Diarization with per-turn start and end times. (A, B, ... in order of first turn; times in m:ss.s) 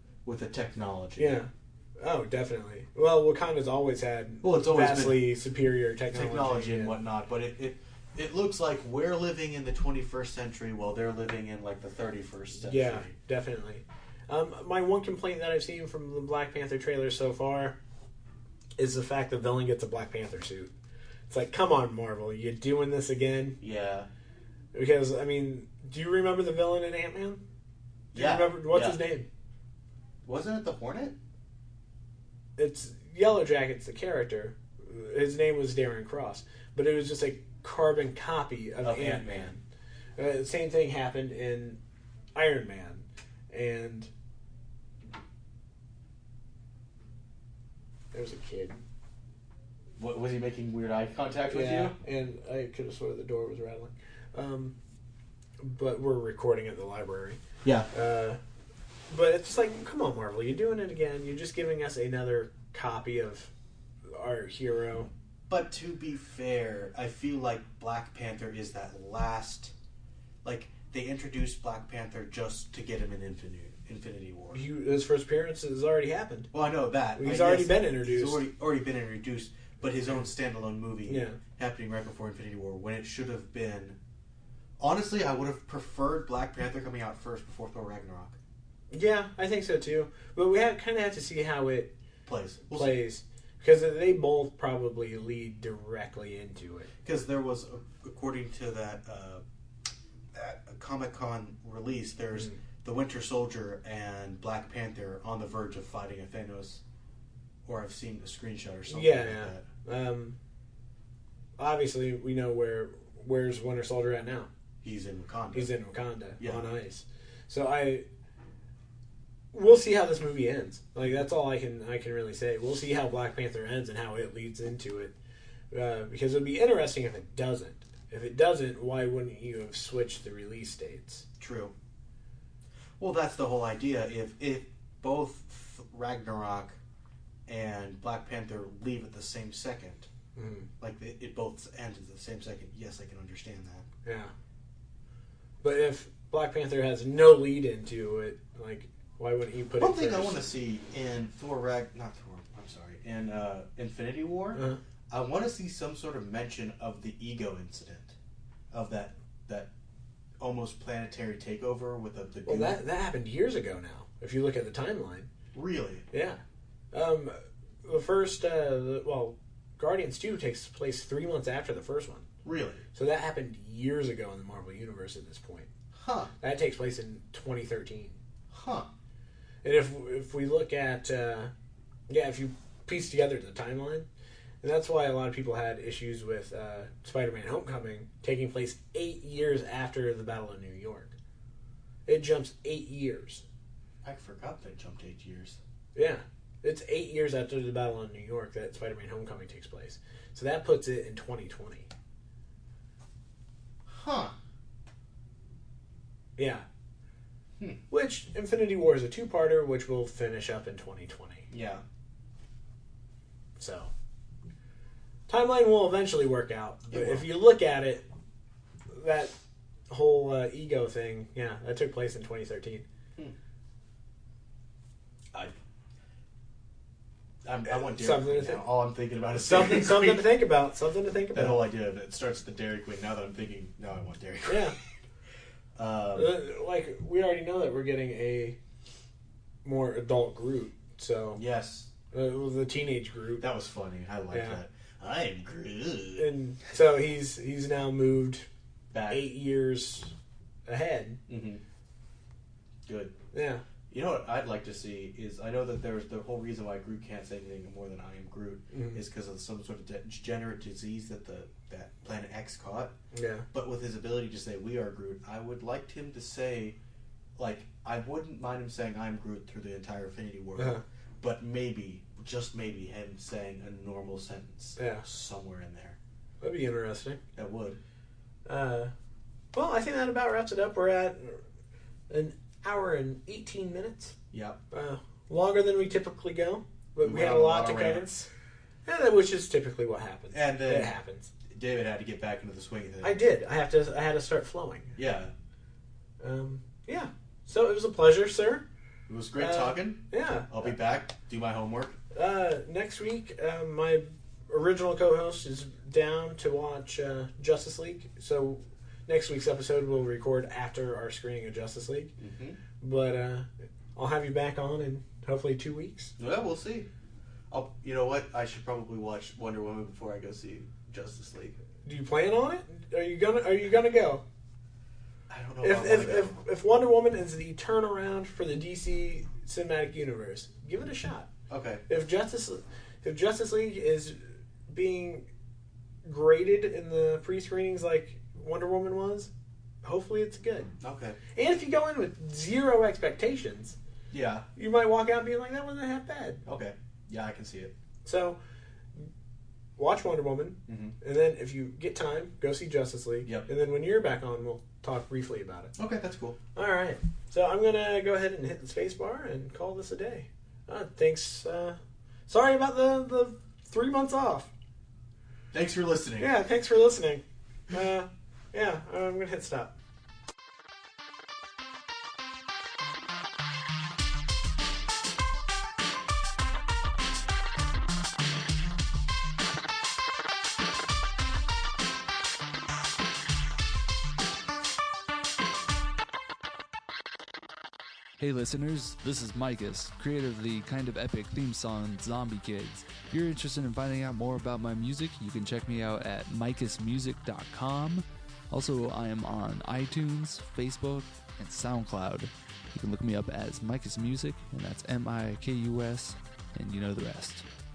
0:00.2-0:01.4 A
0:01.2-0:07.0 B
0:04.4-0:05.4 A
0:06.1-0:13.1 A
0:12.6-0:17.8 B
0:18.8-0:20.7 B
0:21.3-0:23.6 B
0:23.6-0:24.1 A
0:24.7-0:27.4 B
0:28.1-0:29.0 A
0:28.1-0:29.3 B
0:30.2-0:31.2 A
0:32.6-0:39.6 B
0:38.8-0:39.6 A
0:40.2-0:41.8 B
0:42.4-0:44.1 B
0:48.1-0:48.8 B
0:50.0-0:52.0 A
0:51.5-0:54.8 B
0:55.6-0:57.4 B
0:57.6-0:57.9 A
0:57.9-0:58.4 B
0:59.1-1:03.5 B
1:04.1-1:05.1 B
1:05.5-1:09.7 A
1:10.4-1:14.6 A
1:14.5-1:16.5 B
1:16.5-1:24.0 A
1:17.2-1:18.4 B
1:21.1-1:21.4 B
1:24.8-1:28.4 A
1:28.9-1:31.9 B
1:32.2-1:33.0 A
1:32.7-1:36.9 B
1:37.0-1:39.4 A
1:40.3-1:46.8 A
1:47.6-1:49.7 A
1:48.9-1:50.4 B
1:51.6-1:54.5 B
1:54.8-1:55.7 A
1:55.5-1:58.1 B
1:56.4-1:56.7 A
1:59.5-2:05.2 B
2:05.7-2:11.3 B
2:11.4-2:11.7 A
2:13.0-2:16.8 A
2:17.5-2:20.1 A
2:20.4-2:20.7 B
2:20.8-2:23.9 A
2:24.0-2:24.3 B
2:25.6-2:30.5 B
2:29.8-2:38.2 A
2:34.5-2:34.8 B
2:38.7-2:39.7 A
2:40.4-2:42.8 A
2:42.5-2:45.3 B
2:45.5-2:46.1 A
2:46.1-2:46.4 B
2:46.9-2:52.3 B
2:52.4-2:52.8 A
2:52.9-2:55.7 B
2:55.9-2:56.3 A
2:56.4-2:58.2 B
2:58.5-2:58.9 A
2:59.6-3:01.5 B
3:02.1-3:04.1 B
3:04.6-3:11.2 B
3:12.1-3:13.4 B
3:14.0-3:15.6 A
3:16.0-3:21.9 B
3:23.9-3:24.4 A
3:26.4-3:26.6 B
3:27.9-3:31.5 B
3:31.5-3:31.8 A
3:33.6-3:33.9 B
3:35.3-3:38.1 B
3:36.9-3:37.3 A
3:38.9-3:39.3 B
3:39.9-3:42.9 B
3:47.4-3:50.3 A
3:47.7-3:48.6 B
3:49.4-3:51.6 B
3:51.3-3:54.8 A
3:54.5-3:54.8 B
3:55.8-3:56.4 A
3:56.2-3:58.6 B
3:59.6-4:01.4 B
4:01.4-4:01.9 A
4:02.1-4:03.4 B
4:03.4-4:06.3 A
4:04.3-4:04.6 B
4:06.2-4:08.5 B
4:08.9-4:09.3 A
4:09.1-4:10.1 B
4:10.7-4:11.2 B
4:11.3-4:11.6 A
4:12.9-4:13.2 A
4:13.3-4:13.6 B
4:13.9-4:23.0 A
4:18.7-4:19.0 B
4:23.1-4:23.5 B
4:23.5-4:26.8 A
4:27.4-4:36.0 A
4:30.6-4:30.8 B
4:34.8-4:35.0 B
4:36.4-4:37.2 B
4:37.4-4:37.8 A
4:38.5-4:38.9 B
4:39.5-4:41.4 B
4:42.1-4:44.2 B
4:44.3-4:44.6 A
4:44.7-4:48.3 B
4:47.0-4:48.1 A
4:48.9-4:51.3 B
4:50.3-4:50.9 A
4:51.5-4:53.2 A
4:53.0-4:55.0 B
4:55.0-4:55.3 A
4:56.2-4:58.6 B
4:59.1-5:02.0 A
4:59.4-5:00.7 B
5:02.1-5:12.1 B
5:12.2-5:12.6 A
5:12.8-5:16.2 B
5:16.2-5:16.9 A
5:17.5-5:21.6 A
5:21.8-5:24.2 B
5:25.3-5:26.4 A
5:25.6-5:31.3 B
5:31.5-5:31.8 A
5:31.9-5:35.3 B
5:36.0-5:39.3 B
5:39.8-5:40.7 B
5:40.8-5:41.2 A
5:41.4-5:43.8 B
5:44.1-5:44.5 A
5:44.6-5:46.4 B
5:46.5-5:47.7 A
5:48.0-5:48.4 B
5:49.8-5:55.7 B
5:50.7-5:51.0 A
5:55.8-5:56.4 A
5:56.6-6:04.5 B
6:05.5-6:06.3 A
6:06.2-6:09.8 B
6:28.2-6:47.5 C